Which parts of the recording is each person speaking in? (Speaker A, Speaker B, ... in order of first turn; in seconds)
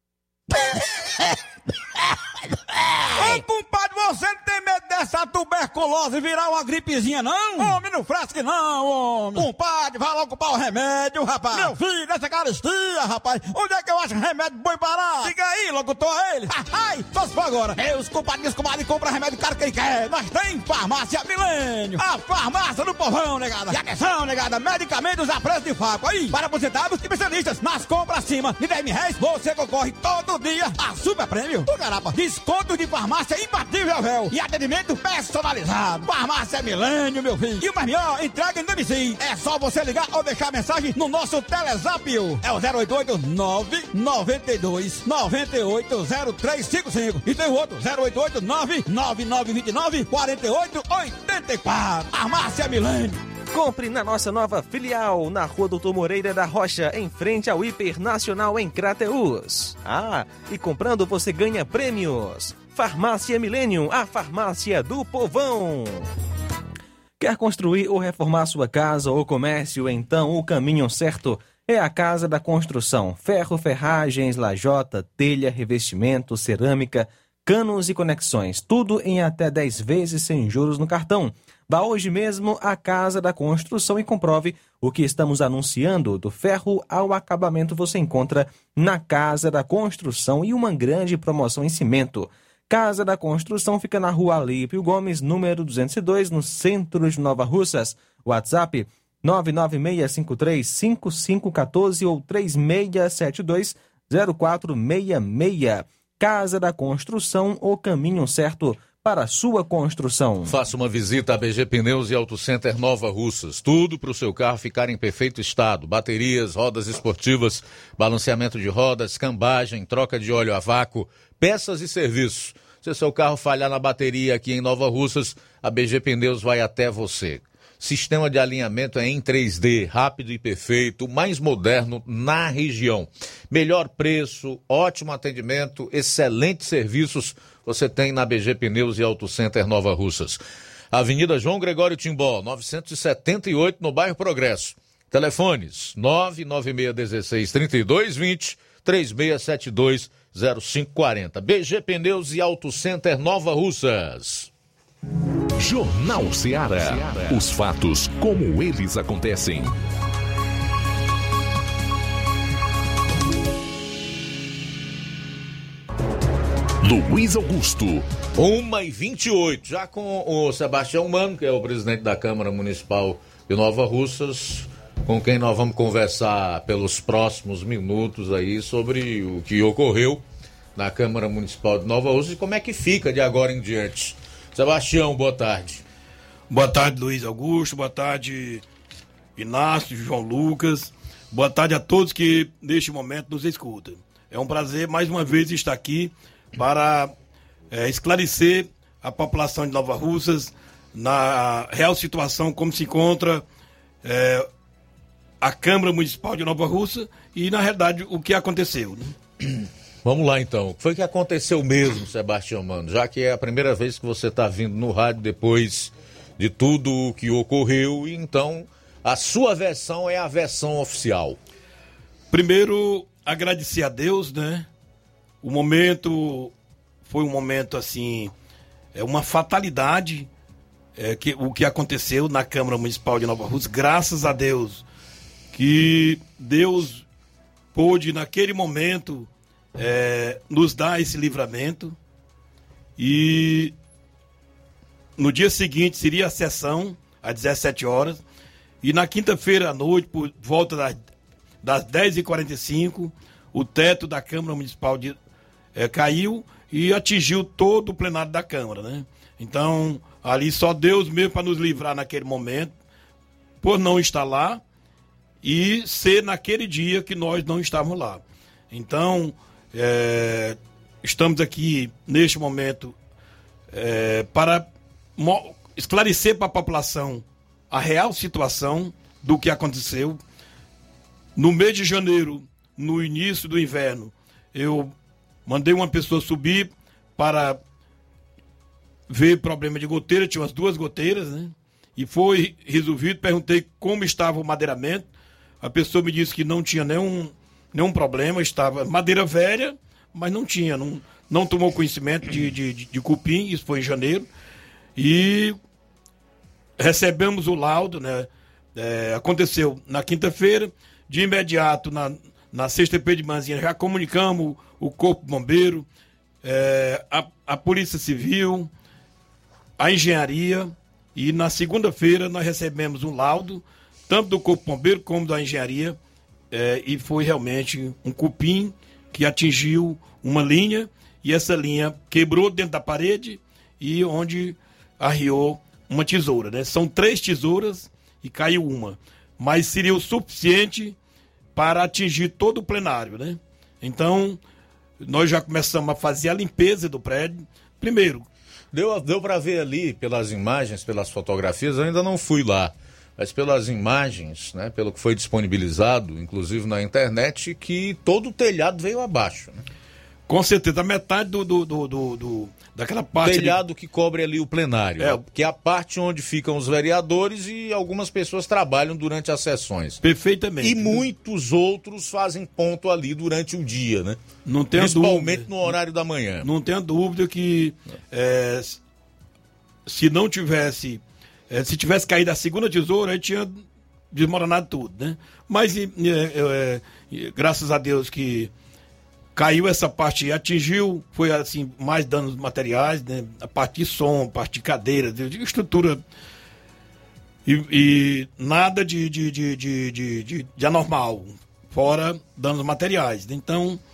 Speaker A: 3.1-53.2
Speaker B: 53.5-66.1, 67.2-110.5
Speaker C: 110.5-140.4, 140.9-154.5, 168.3-180.2, 180.8-185.8, 210.0-221.4, 348.7-359.6, 363.2-370.0, 370.6-374.2, 374.7-376.5
Speaker D: 155.6-159.8, 166.8-168.1
Speaker E: 186.5-188.6, 189.4-197.1, 197.7-203.4, 204.0-204.5, 205.4-209.1, 222.3-224.7, 225.4-226.5, 227.1-228.3, 228.9-230.3, 231.0-234.8, 235.5-237.0, 237.7-241.9, 243.0-243.7, 245.2-248.2, 248.8-251.0, 251.6-255.1, 255.7-262.7, 263.6-264.6, 265.4-272.9, 273.7-280.2, 281.4-284.9, 285.4-287.6, 289.1-295.1, 295.6-304.3, 304.9-305.6, 306.8-315.9, 316.4-318.7, 319.8-326.0, 326.5-340.9, 341.5-344.4, 345.0-348.2, 360.3-363.6, 370.0-371.0, 374.4-375.7, 376.4-378.8, 379.9-388.5, 389.3-396.0, 397.4-403.8